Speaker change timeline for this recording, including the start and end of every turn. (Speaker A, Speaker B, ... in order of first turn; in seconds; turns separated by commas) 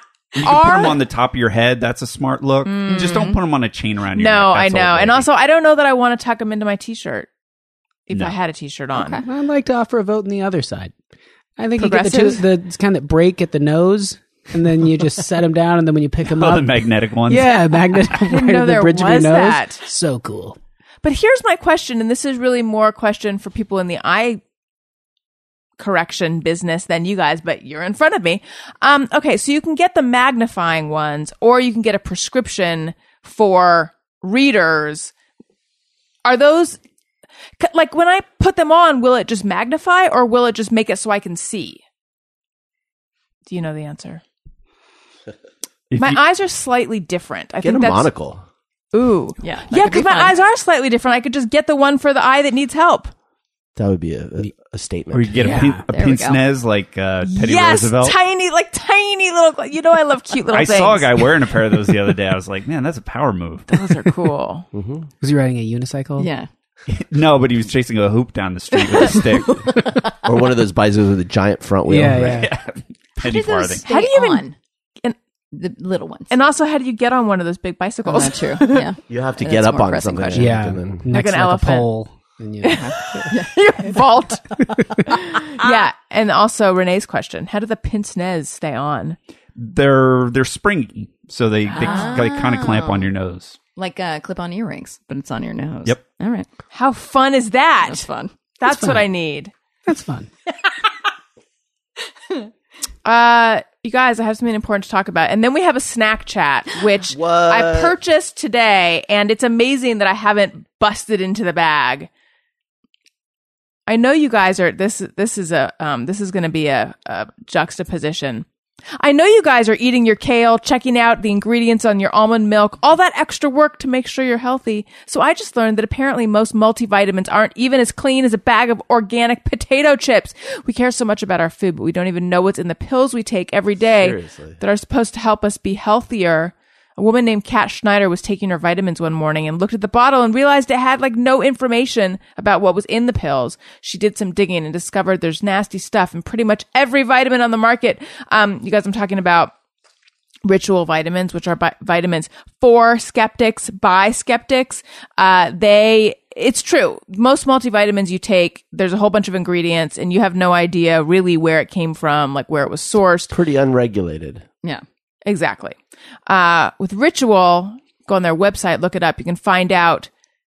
Speaker A: 0.3-5.3, Speaker B: 0.4-1.0, Speaker B: 2.6-3.4, Speaker C: 2.9-3.4, Speaker B: 4.1-7.3, Speaker B: 8.1-9.2, Speaker C: 8.9-9.2, Speaker D: 9.2-10.9, Speaker D: 11.6-20.6, Speaker B: 11.8-12.5, Speaker A: 16.3-18.1, Speaker B: 18.2-19.8, Speaker B: 21.0-24.4, Speaker B: 25.8-35.1, Speaker B: 36.2-36.8, Speaker B: 37.6-41.8, Speaker B: 43.5-44.2, Speaker A: 45.9-46.2, Speaker B: 46.0-48.1, Speaker E: 47.6-48.4, Speaker B: 48.9-53.1, Speaker C: 49.4-50.3, Speaker E: 53.8-55.3, Speaker A: 55.1-58.1, Speaker D: 55.4-55.8, Speaker C: 55.5-56.4, Speaker B: 57.2-61.4, Speaker A: 60.5-63.7, Speaker B: 63.7-64.7, Speaker E: 64.7-65.1, Speaker D: 65.2-66.3, Speaker C: 66.2-66.5, Speaker A: 66.9-69.8, Speaker E: 70.2-72.5, Speaker D: 71.9-72.5, Speaker A: 72.3-73.9, Speaker C: 73.2-74.5, Speaker B: 73.9-74.5, Speaker C: 75.5-76.3, Speaker B: 76.3-78.9, Speaker C: 78.0-80.6, Speaker E: 79.1-81.0, Speaker D: 80.3-83.3, Speaker B: 81.1-81.9, Speaker B: 82.6-84.5, Speaker C: 82.7-84.1, Speaker B: 85.1-89.2, Speaker C: 85.1-85.7, Speaker A: 89.5-93.6, Speaker C: 91.7-93.1, Speaker B: 91.7-92.3, Speaker C: 93.8-96.5, Speaker B: 96.7-98.1, Speaker C: 97.9-98.3, Speaker B: 98.6-99.5, Speaker D: 98.6-99.0, Speaker D: 99.9-100.3, Speaker B: 103.0-112.1, Speaker E: 107.1-108.0, Speaker B: 113.9-118.5, Speaker B: 119.0-149.5, Speaker E: 133.9-134.6, Speaker B: 150.4-163.3, Speaker E: 163.3-164.4, Speaker B: 165.3-170.1